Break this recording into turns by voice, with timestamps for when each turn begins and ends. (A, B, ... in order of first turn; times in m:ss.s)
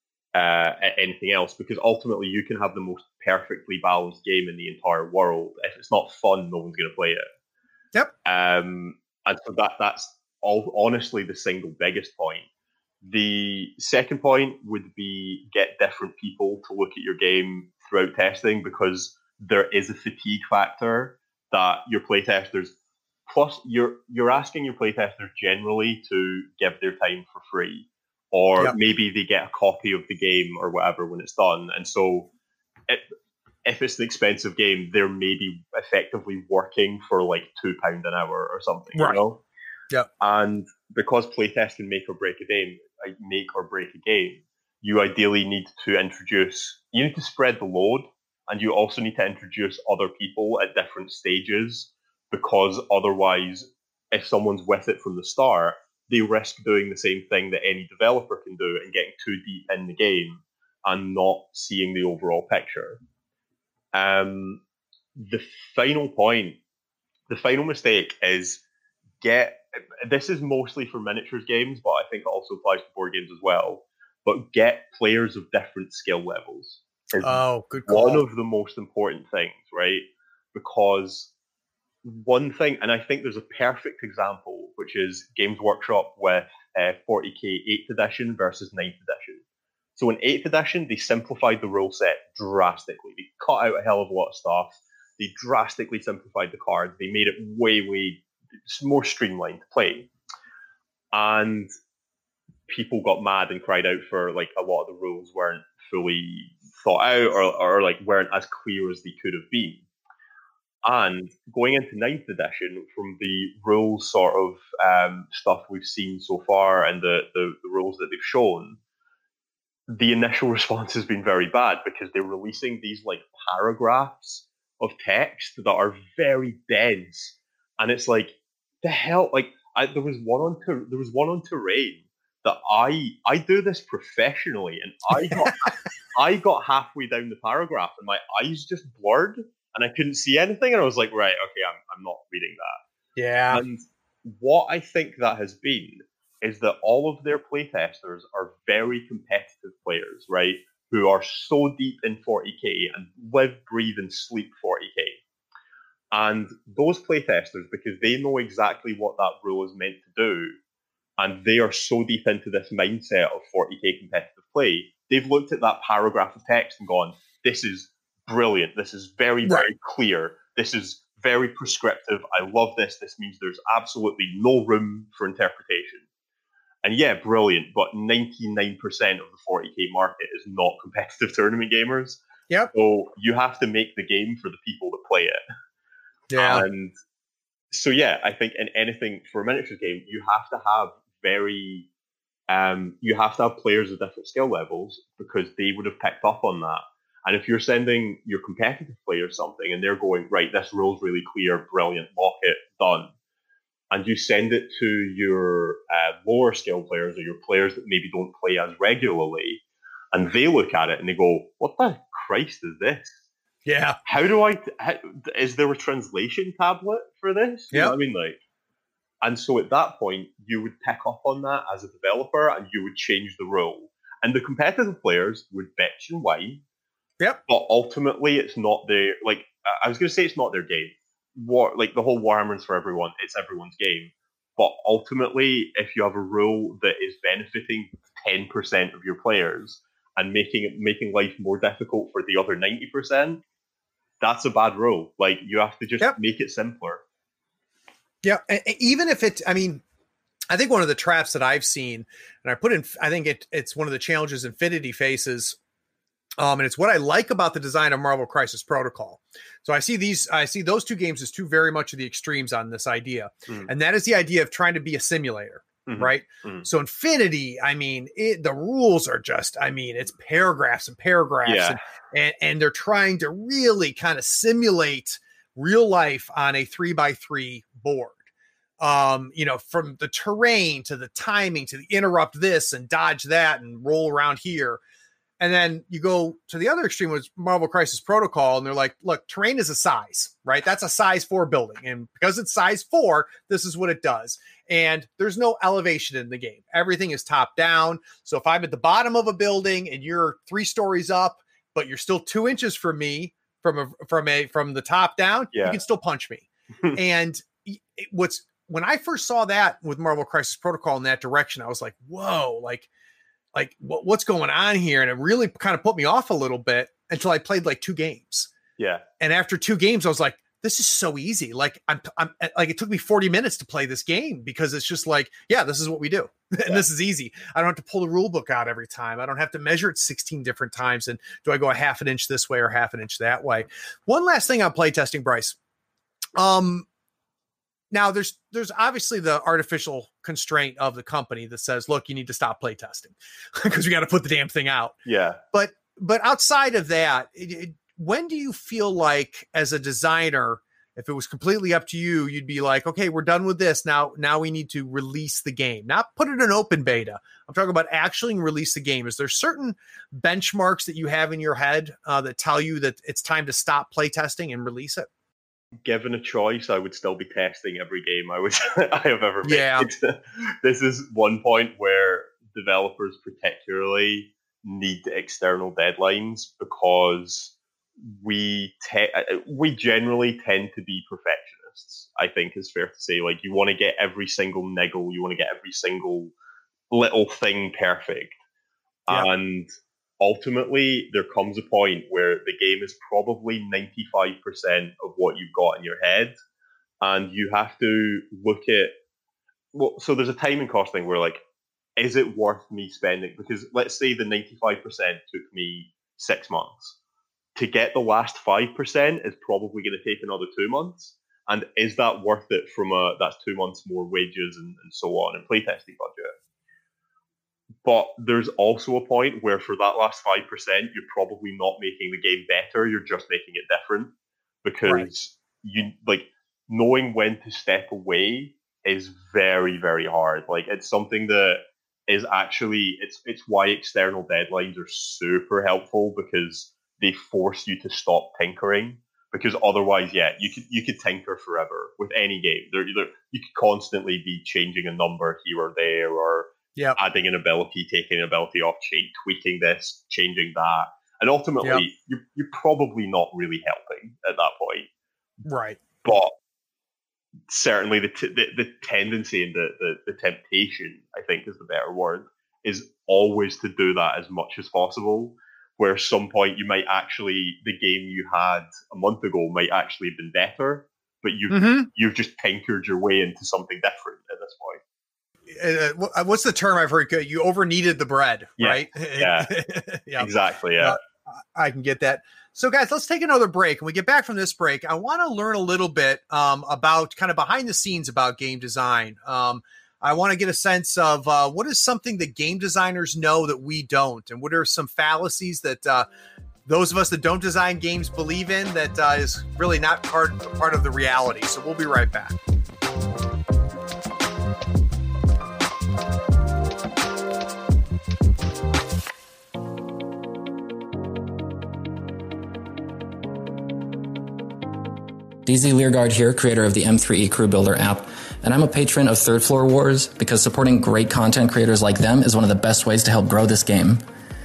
0:00.3-0:07.2 A
0:08.2-0:12.4 A
0:13.0-0:22.7 A
0:23.3-0:32.3 A
0:33.6-0:39.4 A
0:40.2-1:03.0 A
1:03.9-1:04.6 A
1:05.2-1:06.6 A
1:07.3-1:08.6 A
1:09.2-1:21.3 A
1:17.2-1:18.2 B
1:22.0-1:29.4 A
1:30.0-1:40.1 A
1:41.1-1:41.7 A
1:42.7-1:49.8 A
1:50.8-1:58.8 A
1:59.9-2:22.8 A
2:15.3-2:15.7 B
2:23.2-2:23.6 B
2:23.5-2:35.2 A
2:36.1-2:40.5 A
2:41.2-2:56.0 A
2:56.8-3:02.2 A
3:02.7-3:05.4 A
3:06.3-3:06.6 B
3:06.4-3:06.9 A
3:07.7-3:11.9 A
3:12.5-3:23.1 A
3:23.9-3:29.6 A
3:30.1-3:33.1 A
3:33.6-3:34.0 B
3:34.0-3:38.4 A
3:39.2-3:46.6 A
3:47.5-4:03.4 A
4:04.2-4:07.0 A
4:08.2-4:09.8 B
4:10.5-4:15.6 B
4:16.4-4:38.2 B
4:25.8-4:26.7 A
4:31.4-4:31.8 A
4:38.8-4:44.8 B
4:45.4-5:12.9 B
5:05.5-5:05.8 A
5:13.5-5:18.5 B
5:18.8-5:19.0 A
5:19.2-5:35.6 B
5:36.4-5:36.8 B
5:37.9-5:45.0 B
5:45.0-5:45.4 A
5:45.5-6:05.1 B
6:05.8-6:26.3 A
6:09.4-6:09.9 B
6:26.9-6:28.4 A
6:29.1-6:36.3 A
6:37.0-6:38.9 A
6:39.7-6:41.4 A
6:42.0-6:46.9 A
6:47.6-6:56.3 A
6:57.8-7:04.1 A
7:04.6-7:34.9 A
7:04.8-7:05.1 B
7:35.4-7:35.8 B
7:36.0-7:36.3 A
7:37.5-7:54.8 A
7:51.5-7:51.9 B
7:55.5-8:16.1 B
7:58.6-7:59.5 A
8:00.2-8:01.0 A
8:16.6-8:22.4 B
8:35.4-8:44.0 C